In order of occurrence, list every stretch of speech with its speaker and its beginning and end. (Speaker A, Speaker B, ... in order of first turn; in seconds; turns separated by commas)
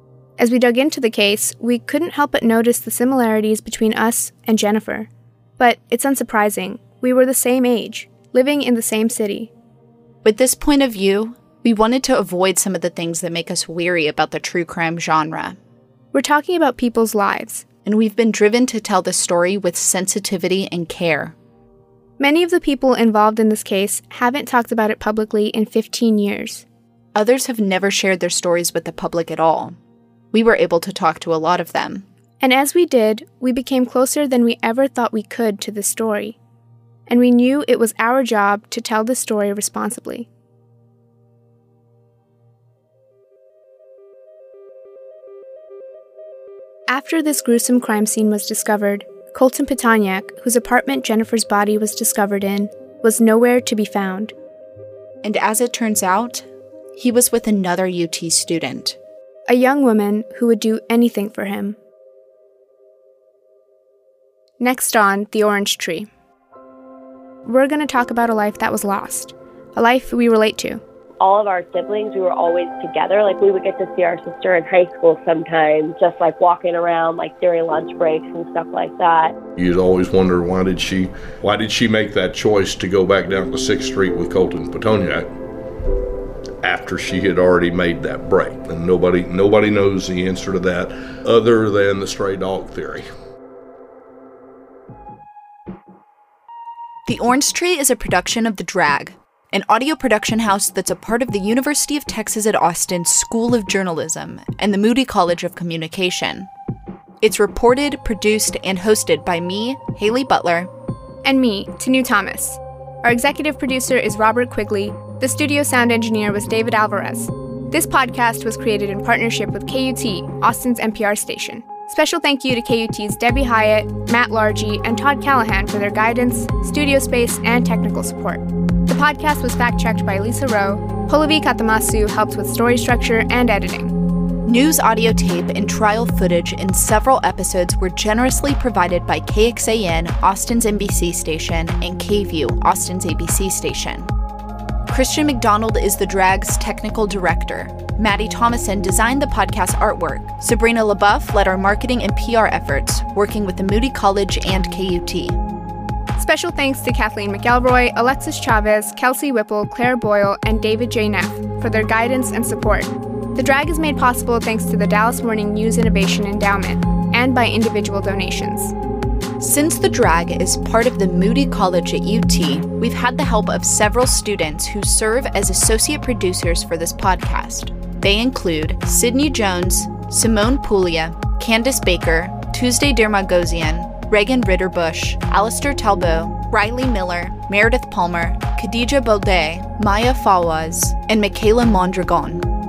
Speaker A: 0.4-9.5, Speaker B: 10.2-15.6, Speaker A: 16.1-17.7, Speaker B: 17.8-21.4, Speaker A: 22.2-26.6, Speaker B: 27.1-29.8, Speaker B: 30.3-32.1, Speaker A: 32.4-36.4, Speaker A: 37.1-40.3, Speaker A: 46.9-54.3, Speaker B: 55.2-59.0, Speaker A: 59.5-61.8, Speaker A: 64.6-66.1, Speaker A: 67.5-70.8, Speaker C: 71.2-79.3, Speaker D: 79.6-85.3, Speaker D: 86.6-93.1, Speaker B: 97.1-106.5, Speaker B: 107.2-110.7, Speaker A: 111.2-133.9, Speaker B: 134.4-144.1, Speaker B: 144.9-155.4, Speaker A: 156.2-168.7, Speaker B: 169.4-192.5